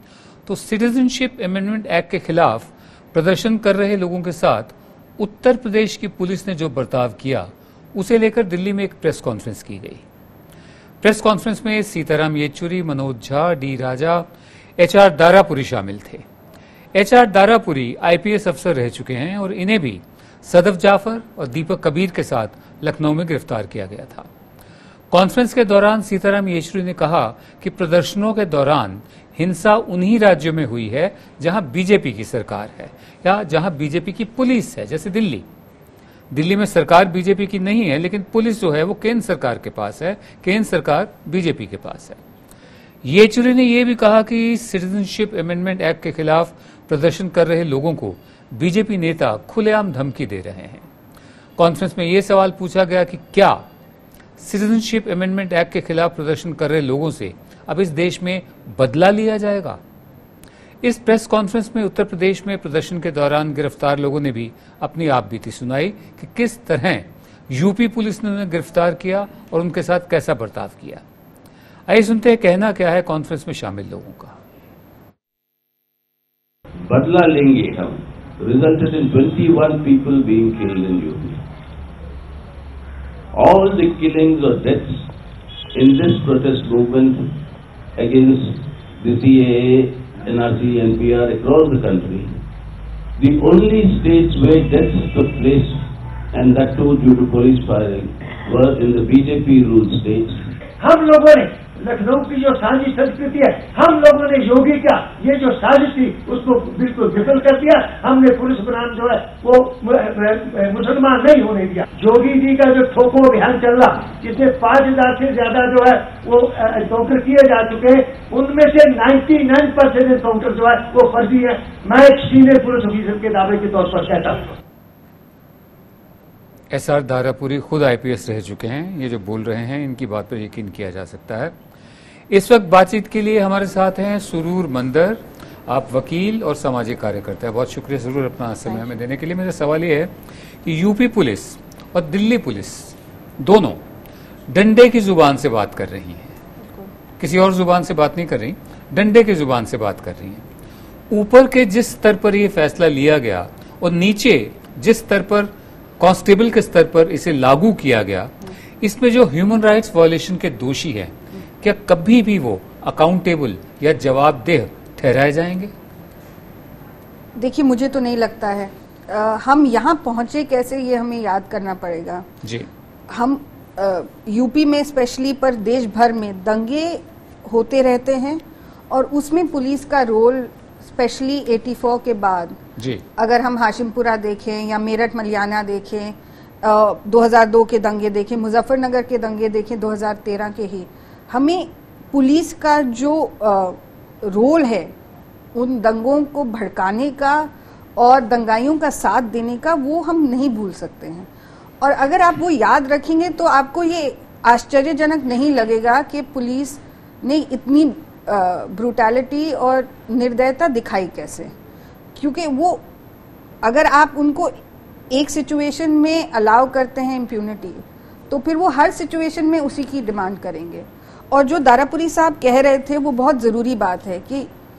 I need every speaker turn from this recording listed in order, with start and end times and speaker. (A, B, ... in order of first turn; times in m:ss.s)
0:00.5-0:10.0 A
0:11.0-0:14.3 A
0:14.8-0:16.2 A
0:16.9-0:24.3 A
0:25.1-0:35.4 A
0:36.3-0:42.2 A
0:43.0-0:50.8 A
0:51.6-0:53.6 A
0:54.4-0:59.8 A
1:00.8-1:11.0 A
1:11.9-1:14.4 A
1:16.8-1:21.4 B
1:23.4-1:25.0 B
1:25.8-1:27.2 B
1:28.0-1:32.3 B
1:33.2-1:40.4 B
1:40.8-2:04.4 C
2:06.7-2:11.5 A
2:12.3-2:20.1 A
2:20.6-2:23.8 A
2:24.5-2:26.4 A
2:27.2-2:30.4 A
2:31.1-2:45.7 A
2:47.4-2:52.2 D
2:52.4-2:52.7 A
2:53.1-3:02.6 D
3:02.8-3:03.0 A
3:03.2-3:14.9 D
3:15.6-3:21.3 D
3:21.8-3:31.5 D
3:32.2-3:32.8 D
3:33.6-3:34.5 D
3:35.1-3:44.5 D